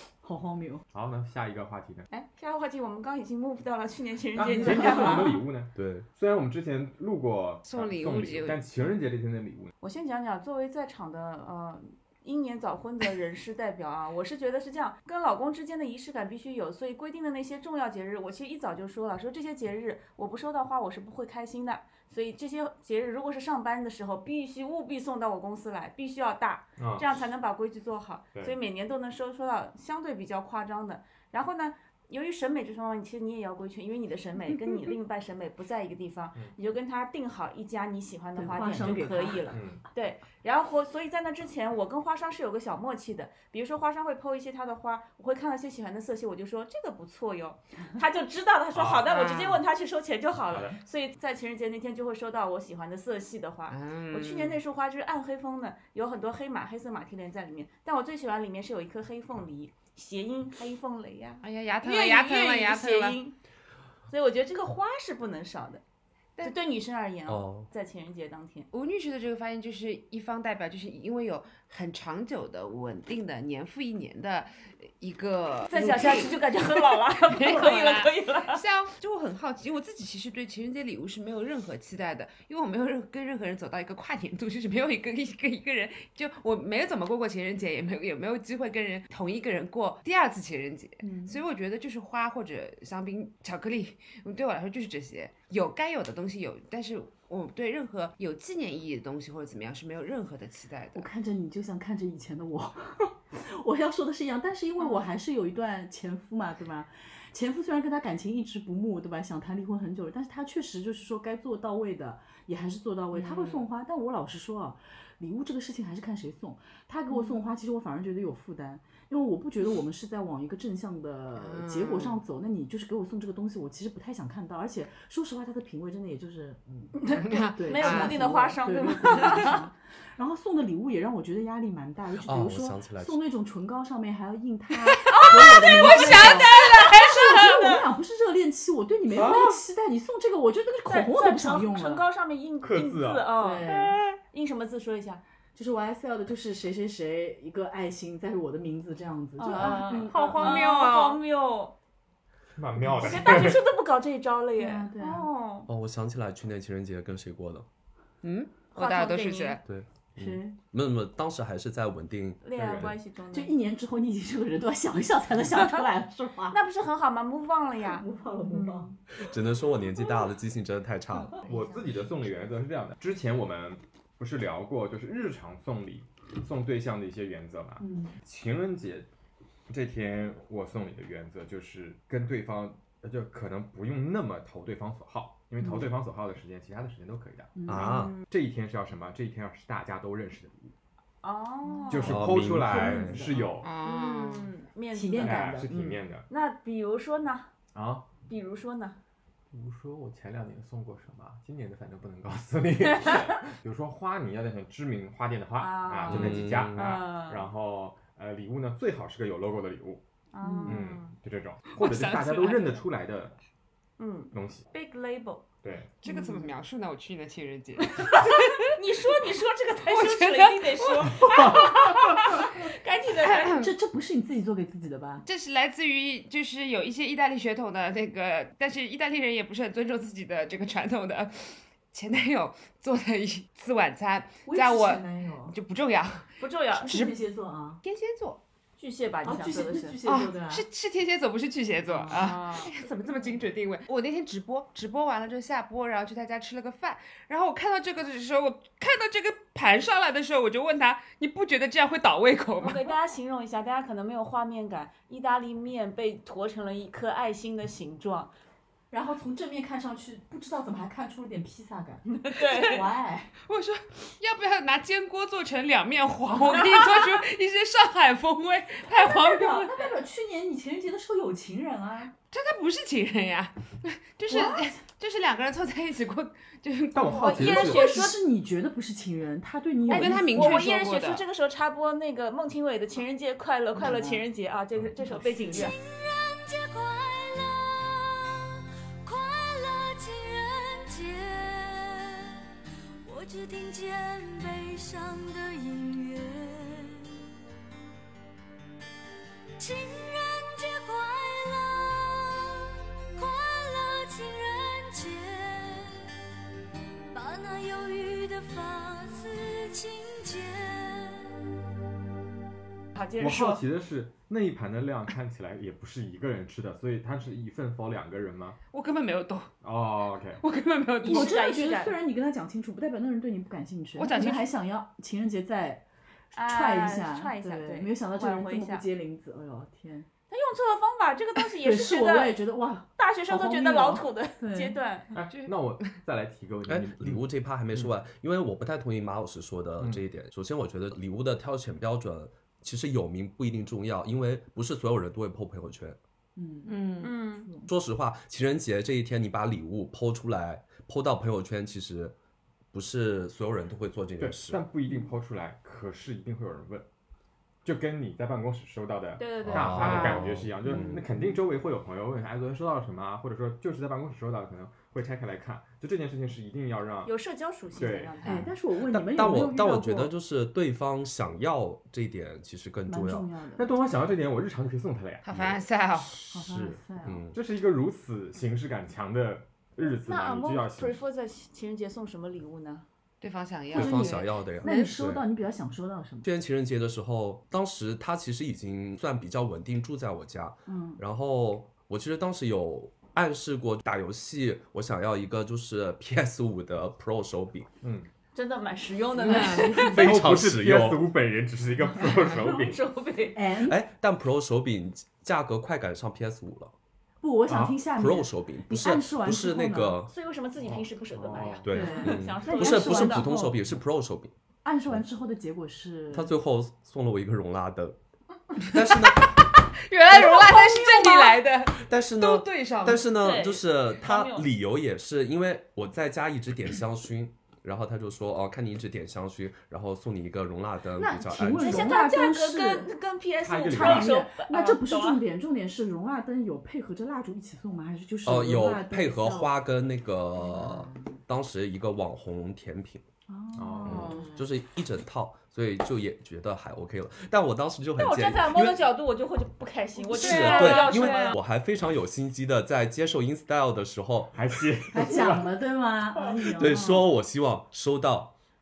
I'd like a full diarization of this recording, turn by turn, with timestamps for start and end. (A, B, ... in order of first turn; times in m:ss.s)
0:00.2-0:00.8 A
0:00.9-0:02.1 B
0:02.1-0:05.4 C
0:04.3-0:09.7 B
0:04.6-0:05.4 A
0:05.7-0:06.1 D
0:07.6-0:08.6 E
0:09.8-1:03.4 C
0:26.8-0:27.1 B
0:38.4-0:39.5 A
0:39.5-0:39.8 B
0:48.7-0:49.1 B
0:49.1-0:49.6 E
0:50.5-0:50.8 B
0:53.7-0:54.6 E
1:01.4-1:03.2 E
1:04.1-1:05.8 C
1:06.4-1:08.7 C
1:07.3-1:07.7 D
1:08.7-1:41.1 E
1:15.7-1:18.6 C
1:31.0-1:31.4 A
1:40.9-2:07.0 A
1:53.1-1:53.6 E
2:01.4-2:02.2 E
2:06.9-2:09.6 C
2:07.1-2:08.1 E
2:07.5-2:22.0 A
2:12.2-2:13.2 D
2:15.1-2:17.4 E
2:15.1-2:17.8 C
2:19.1-2:19.5 B
2:20.9-2:25.2 C
2:22.6-2:24.1 B
2:23.4-2:24.0 A
2:25.5-2:30.6 A
2:29.4-2:31.7 C
2:29.6-2:31.2 E
2:32.6-2:33.7 B
2:32.8-2:33.5 A
2:33.0-2:35.7 C
2:34.5-2:35.3 A
2:35.7-2:37.6 D
2:38.2-2:39.6 E
2:38.8-2:39.6 C
2:39.6-2:42.4 D
2:40.2-2:40.5 A
2:42.4-2:43.5 C
2:42.5-2:43.0 B
2:43.3-2:46.6 A
2:46.5-2:49.0 C
2:47.9-2:48.9 A
2:49.2-2:51.4 D
2:51.4-2:59.1 B
2:57.8-2:58.2 A
2:59.7-3:07.6 B
3:05.6-3:05.9 A
3:07.6-3:08.0 A
3:07.7-3:08.2 D
3:07.7-3:08.2 C
3:08.3-3:10.7 B
3:11.2-3:12.2 C
3:11.6-3:13.5 A
3:11.9-3:13.7 B
3:12.0-3:13.2 D
3:13.6-3:14.5 E
3:13.8-3:15.6 C
3:14.9-3:16.0 A
3:15.2-3:16.3 B
3:16.3-3:17.5 C
3:17.7-3:18.2 B
3:18.2-3:19.0 C
3:19.5-3:30.0 B
3:25.6-3:27.5 C
3:26.1-3:26.9 D
3:30.3-3:31.2 C
3:30.4-3:30.8 A
3:30.6-3:33.4 B
3:31.7-3:32.8 E
3:34.0-3:35.5 C
3:34.3-3:34.6 B
3:35.6-3:35.9 B
3:36.0-3:38.7 E
3:36.1-3:36.4 A
3:37.8-3:43.7 C
3:39.8-3:41.2 E
3:41.2-3:42.2 B
3:43.2-3:43.7 E
3:43.4-3:45.2 A
3:45.2-3:57.1 E
3:54.4-3:55.5 A
3:56.4-3:57.0 C
3:56.8-3:57.8 A
3:57.8-3:58.4 E
3:58.8-4:00.0 C
3:59.2-4:00.6 A
4:00.0-4:12.9 E
4:01.9-4:02.3 A
4:02.1-4:03.3 C
4:12.6-4:18.3 C
4:18.9-4:23.3 A
4:22.1-4:22.9 C
4:23.4-4:29.8 E
4:26.5-4:27.2 C
4:28.9-4:32.1 A
4:32.3-4:37.7 E
4:34.3-4:34.8 A
4:36.9-4:38.1 B
4:37.1-4:38.2 C
4:37.4-4:40.6 A
4:39.9-4:45.7 C
4:39.9-4:41.2 E
4:43.8-4:44.2 A
4:45.0-4:45.7 A
4:45.5-4:48.4 F
4:49.0-4:52.3 F
4:53.0-4:57.1 F
4:59.6-5:02.6 F
5:03.1-5:06.0 F
5:07.1-5:11.3 F
5:13.0-5:13.6 C
5:13.2-5:18.6 B
5:18.7-5:19.5 E
5:19.6-5:20.4 B
5:20.4-5:21.3 E
5:21.0-5:22.0 C
5:21.0-5:30.1 A
5:24.0-5:24.5 E
5:26.3-5:28.8 C
5:30.3-5:32.4 C
5:31.6-5:34.8 A
5:33.0-5:35.1 C
5:35.1-5:37.9 B
5:35.3-5:35.8 E
5:36.7-5:46.0 D
5:46.4-5:47.7 A
5:46.7-5:47.1 E
5:47.0-5:47.5 C
5:47.7-5:52.1 D
5:52.7-5:54.6 D
5:54.2-5:56.9 B
5:57.6-6:07.1 B
5:59.2-6:00.3 C
5:59.4-6:01.0 D
5:59.8-6:00.3 E
6:00.6-6:01.4 A
6:07.0-6:08.5 C
6:07.7-6:08.3 B
6:08.2-6:10.1 A
6:08.9-6:13.3 D
6:12.9-6:13.7 A
6:13.6-6:16.7 B
6:15.2-6:16.2 E
6:16.3-6:17.2 A
6:16.5-6:17.4 D
6:17.3-6:21.0 B
6:19.8-6:22.8 C
6:23.2-6:24.9 E
6:23.7-6:25.2 D
6:23.7-6:26.3 A
6:26.2-6:37.7 D
6:30.7-6:31.0 A
6:37.8-6:38.1 B
6:38.3-6:40.0 C
6:39.2-6:39.8 E
6:39.3-6:40.0 A
6:39.8-6:41.1 D
6:39.9-6:42.8 B
6:42.2-6:43.4 C
6:43.3-6:43.8 A
6:43.6-6:46.7 D
6:47.2-6:50.0 A
6:47.5-6:47.8 B
6:47.9-6:50.1 D
6:50.1-6:53.3 C
6:50.6-6:51.7 B
6:51.6-6:54.3 D
6:51.7-6:53.6 A
6:54.6-6:56.3 A
6:56.1-6:58.0 D
6:58.6-6:59.4 D
6:58.8-7:03.0 E
7:00.1-7:01.3 C
7:01.8-7:11.9 D
7:03.1-7:04.5 C
7:11.0-7:12.9 A
7:11.6-7:15.2 C
7:13.4-7:14.2 B
7:13.7-7:19.5 A
7:18.2-7:23.0 D
7:23.3-7:24.2 A
7:23.6-7:24.2 B
7:23.8-7:28.8 D
7:23.9-7:24.4 E
7:28.0-7:31.4 C
7:30.1-7:31.4 E
7:30.2-7:34.7 D
7:34.3-7:35.6 B
7:34.9-7:37.1 A
7:36.5-7:38.3 D